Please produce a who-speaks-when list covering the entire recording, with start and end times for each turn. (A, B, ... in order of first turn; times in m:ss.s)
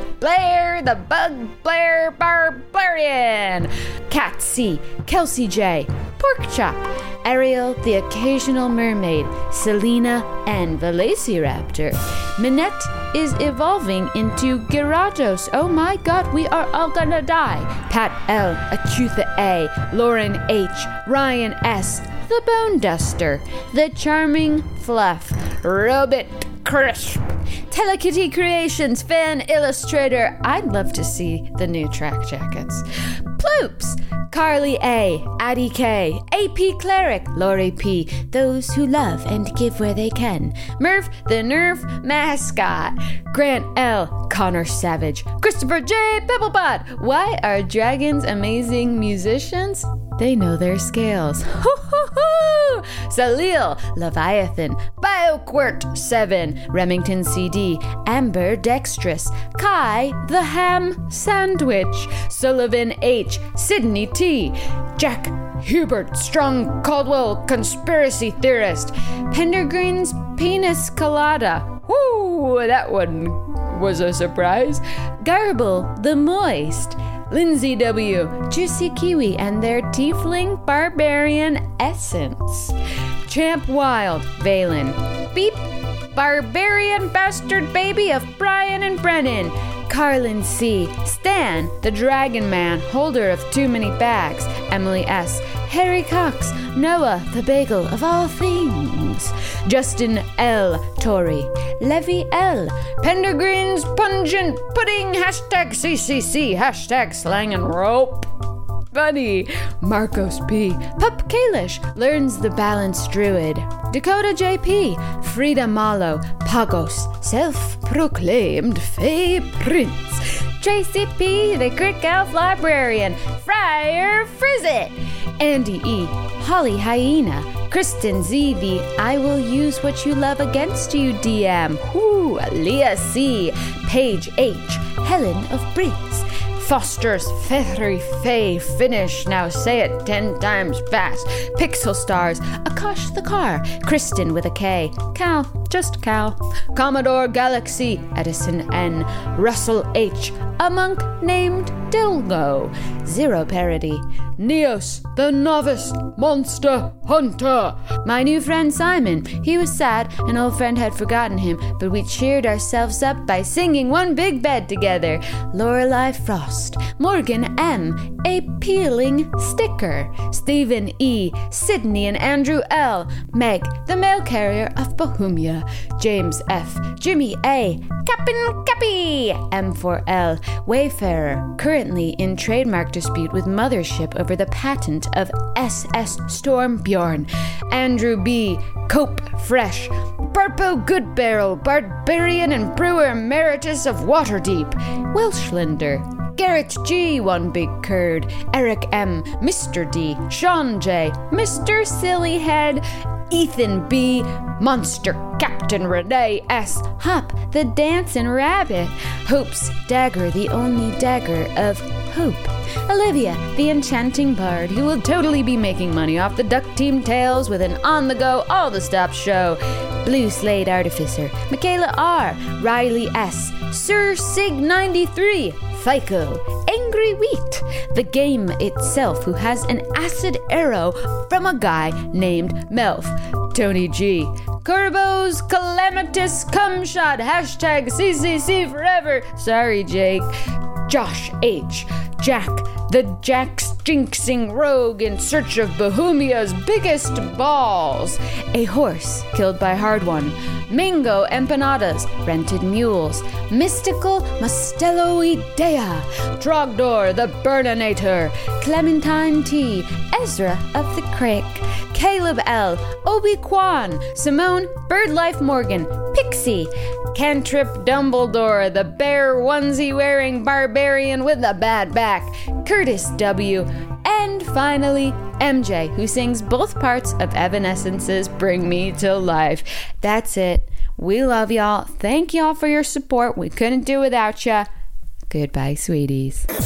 0:00.2-0:32.8 A
0:33.4-1:22.8 A
1:23.3-1:48.3 A
1:48.9-4:00.3 A
4:00.9-4:44.7 A
4:45.3-4:46.5 A